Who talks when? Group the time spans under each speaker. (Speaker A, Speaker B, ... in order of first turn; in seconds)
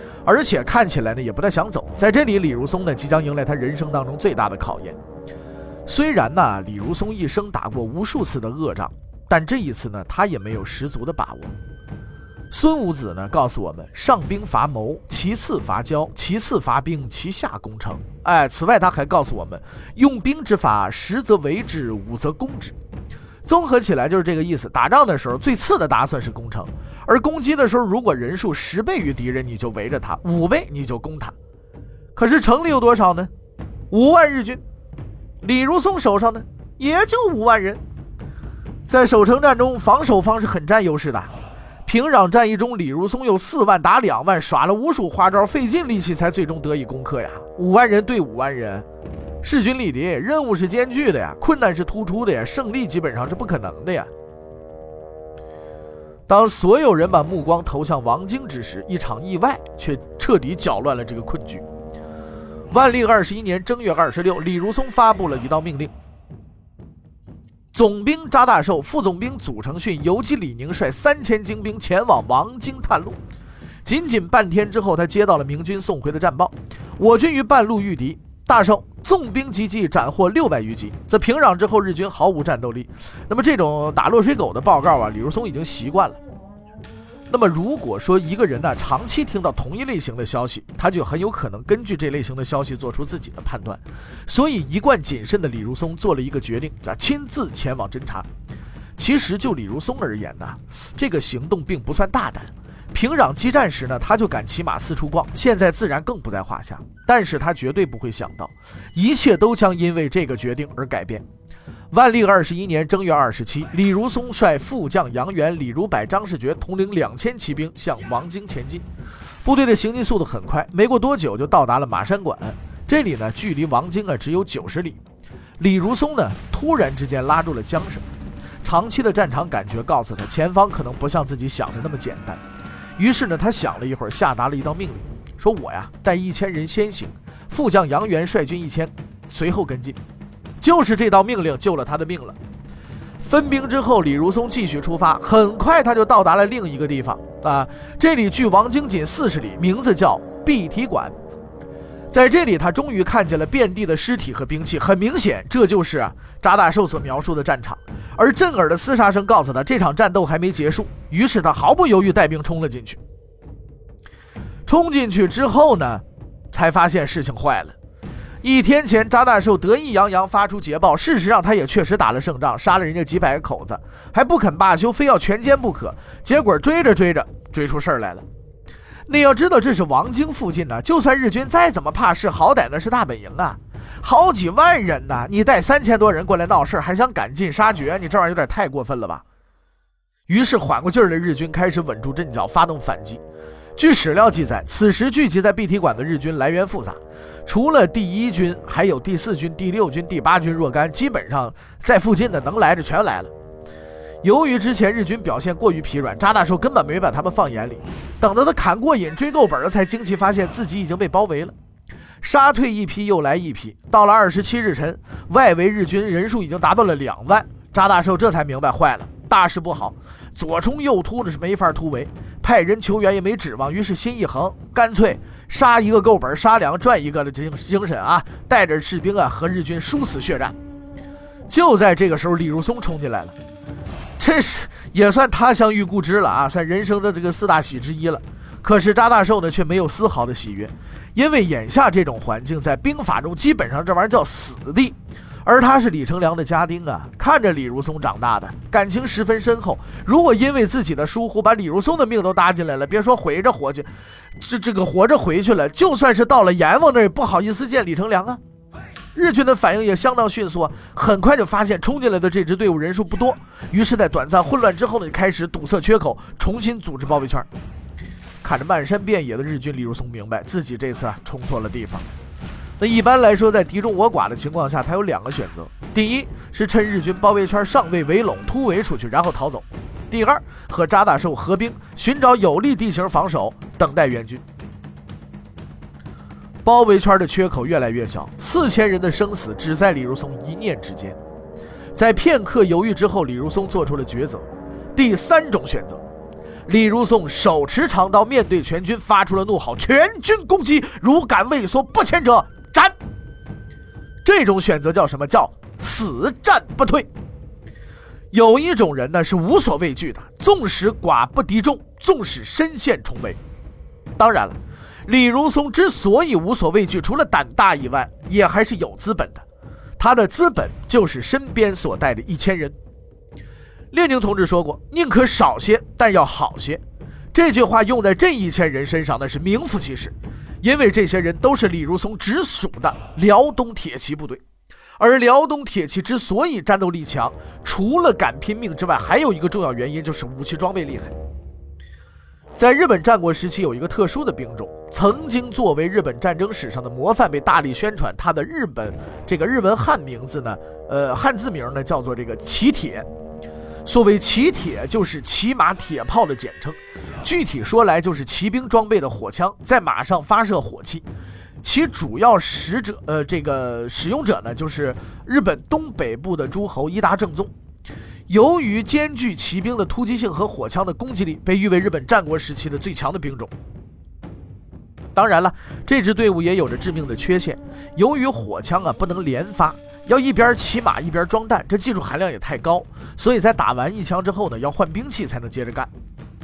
Speaker A: 0.2-5.0, 5.8-11.5, 12.5-22.8, 23.4-31.3, 32.1-33.3, 33.9-34.6, 35.4-37.8, 38.9-41.3, 41.8-48.9, 49.4-54.1, 56.3-61.6, 62.7-65.9, 67.7-73.2, 73.8-86.2, 87.3-98.3, 99.0-111.2, 111.9-118.8, 119.4-125.0, 125.6-128.0, 128.6-132.4, 133.0-140.0, 140.6-142.4, 143.2-151.2, 152.1-163.0, 164.7-167.8, 168.4-178.2, 179.1-189.2, 190.3-193.2, 193.8-203.3, 204.2-211.5, 212.2-230.6, 231.5-233.3, 234.2-258.4, 259.1-267.5, 268.4-272.1, 272.8-284.4, 286.6-291.2, 291.9-296.0, 296.6-302.9, 304.2-307.1, 308.3-313.4, 314.2-319.4, 320.0-322.8, 323.9-326.8, 327.3-334.4, 335.0-341.1, 342.6-353.1, 353.8-361.1, 361.6-367.5, 368.3-373.5, 375.1-385.9